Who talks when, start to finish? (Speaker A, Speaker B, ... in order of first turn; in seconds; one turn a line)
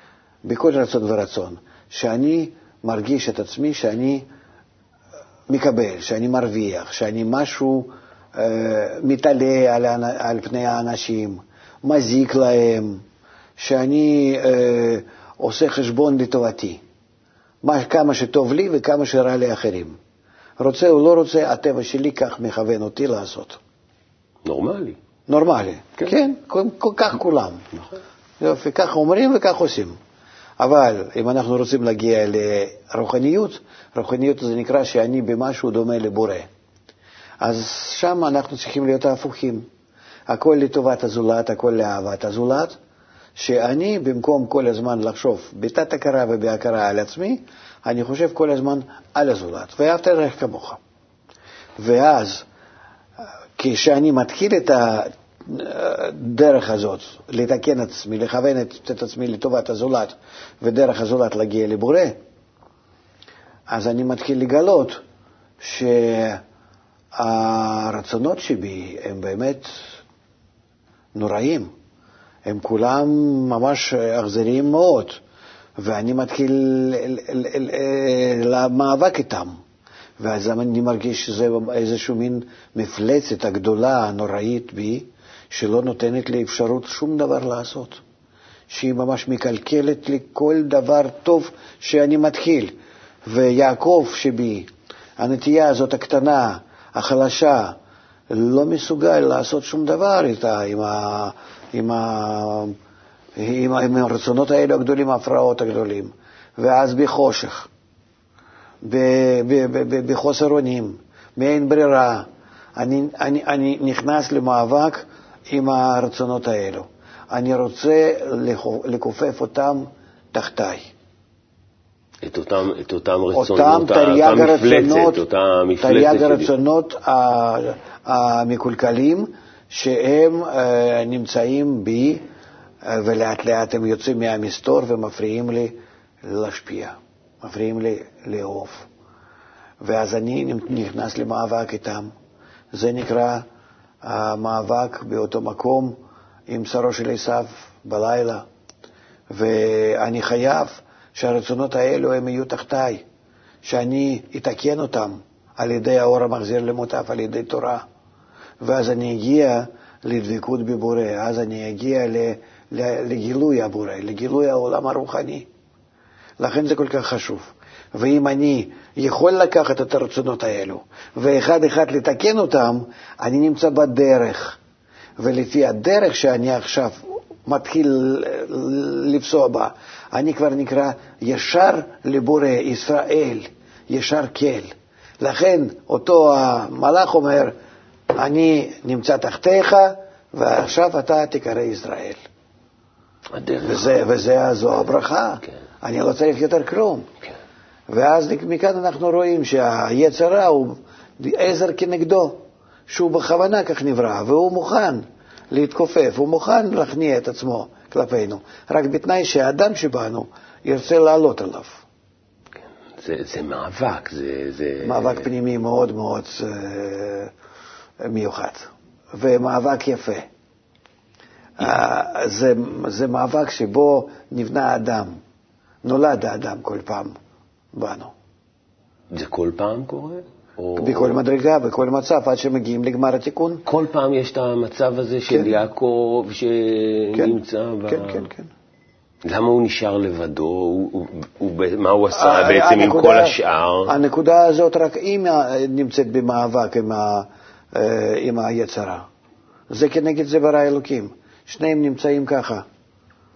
Speaker A: 0.4-4.2
Speaker A: 5.5-13.0
Speaker A: 13.6-16.8
Speaker A: 17.6-20.0
Speaker A: 20.6-23.6
Speaker B: 24.4-25.0
Speaker A: 25.3-27.7
Speaker A: 28.4-29.9
Speaker A: 30.6-36.5
Speaker A: 37.4-39.6
Speaker A: 40.3-42.7
Speaker A: 43.4-50.8
Speaker A: 51.8-52.4
Speaker A: 53.6-62.1
Speaker A: 63.7-65.0
Speaker A: 65.6-66.4
Speaker A: 67.2-69.7
Speaker A: 71.1-71.7
Speaker A: 72.5-75.2
Speaker A: 75.8-79.6
Speaker A: 80.2-88.0
Speaker A: 88.7-92.7
Speaker A: 93.2-97.8
Speaker A: 98.3-102.7
Speaker A: 103.4-107.7
Speaker A: 108.8-120.9
Speaker B: 122.2-126.5
Speaker A: 123.3-125.2
Speaker A: 125.8-132.2
Speaker A: 132.8-138.9
Speaker A: 139.8-142.1
Speaker A: 142.7-143.4
Speaker A: 144.0-145.9
Speaker A: 146.5-148.4
Speaker A: 149.3-153.0
Speaker A: 153.6-157.8
Speaker A: 158.6-165.4
Speaker A: 166.4-174.6
Speaker A: 175.2-187.5
Speaker A: 188.1-192.2
Speaker B: 193.3-194.0
Speaker A: 193.6-197.1
Speaker A: 197.9-211.8
Speaker B: 213.0-215.3
Speaker A: 214.8-217.3
Speaker A: 218.0-220.3
Speaker A: 221.6-225.2
Speaker A: 225.8-227.2
Speaker A: 227.7-228.1
Speaker B: 229.1-231.2
Speaker A: 230.8-233.6
Speaker B: 233.7-238.2
Speaker A: 237.1-238.5
Speaker B: 239.2-243.9
Speaker A: 242.1-249.0
Speaker A: 249.7-252.6